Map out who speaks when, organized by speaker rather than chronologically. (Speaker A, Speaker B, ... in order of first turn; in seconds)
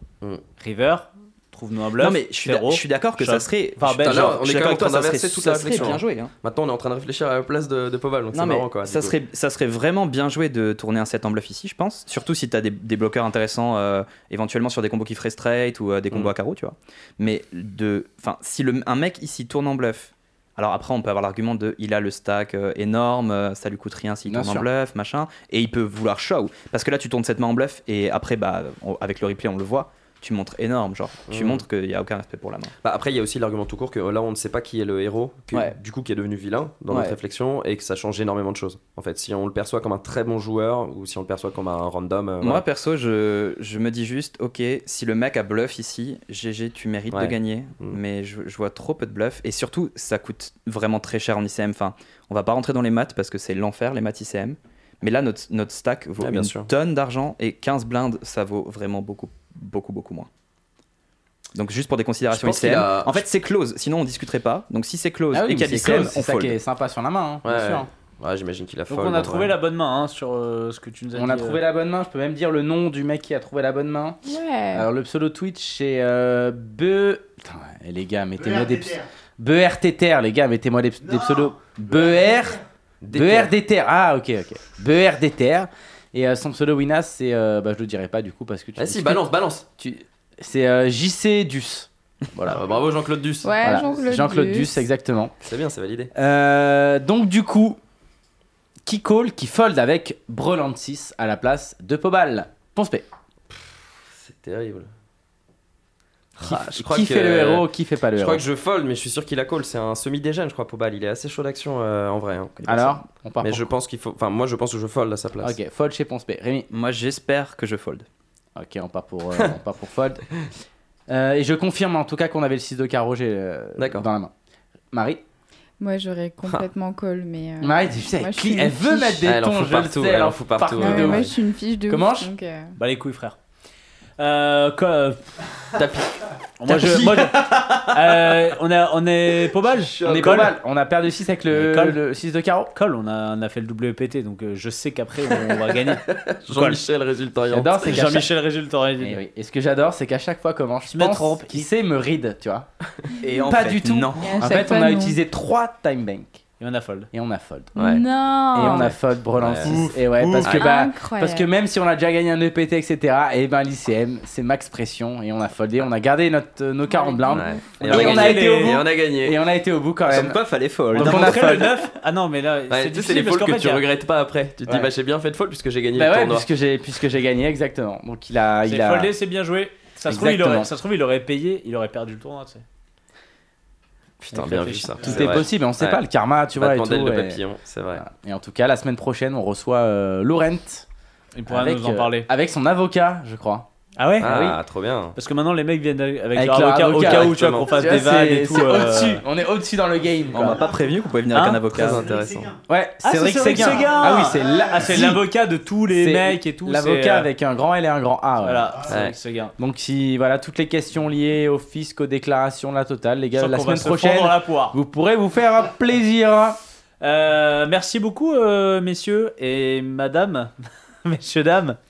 Speaker A: 0.6-4.4, 68.9-71.6, 132.8-133.4, 134.2-135.3, 136.6-140.5, 141.5-142.0, 142.7-146.8, 147.8-149.2, 150.9-151.7, 156.6-157.1, 167.8-168.8, 170.9-173.9, 178.7-182.6, 184.3-185.4, 191.3-192.3, 194.0-194.3, 195.2-199.2, 201.3-201.6, 203.0-207.3, 208.4-209.5, 213.4-214.8, 217.0-221.8
Speaker B: 2.0-6.3, 8.3-32.7, 36.9-37.2, 42.4-60.3, 61.5-66.6, 112.6-113.0, 116.7-118.1, 153.2-154.6, 170.1-171.4, 200.3-202.1
Speaker C: 4.0-9.2, 31.3-31.6, 32.8-42.6, 47.1-48.0, 56.2-56.7, 62.3-63.2, 67.5-69.5, 83.0-83.5, 88.8-89.6, 92.4-94.0, 95.4-96.1, 103.5-104.9, 106.4-112.9, 113.4-115.6, 123.8-124.1, 129.2-131.4, 135.7-137.2, 139.8-140.4, 145.6-148.3, 157.8-158.0, 158.6-160.7, 167.3-169.4, 172.7-176.5, 184.2-186.0, 186.6-188.0, 194.2-195.2, 197.0-197.9, 201.7-202.6, 208.9-209.2
Speaker D: 24.3-24.7, 65.3-67.9, 71.1-74.2, 74.7-89.2, 89.8-92.7, 93.6-95.3, 96.2-97.8, 98.8-103.1, 106.4-108.4, 112.7-113.7, 115.4-116.7, 118.6-120.3, 121.1-124.3, 124.9-125.2, 127.6-132.3, 136.7-137.0, 140.0-142.7, 147.5-148.3, 149.0-152.7, 153.4-156.4, 157.1-157.8, 158.5-170.4, 170.9-171.8, 174.7-174.9, 175.9-179.1, 180.1-180.7, 185.0-187.4, 187.9-190.9, 191.5-194.6, 196.3-200.6, 202.7-205.2, 205.9-208.8, 209.6-216.6
Speaker E: 74.2-74.9, 93.4-94.9, 125.8-129.3, 130.8-132.8, 154.2-155.2, 157.8-158.9, 160.4-161.5, 166.9-167.6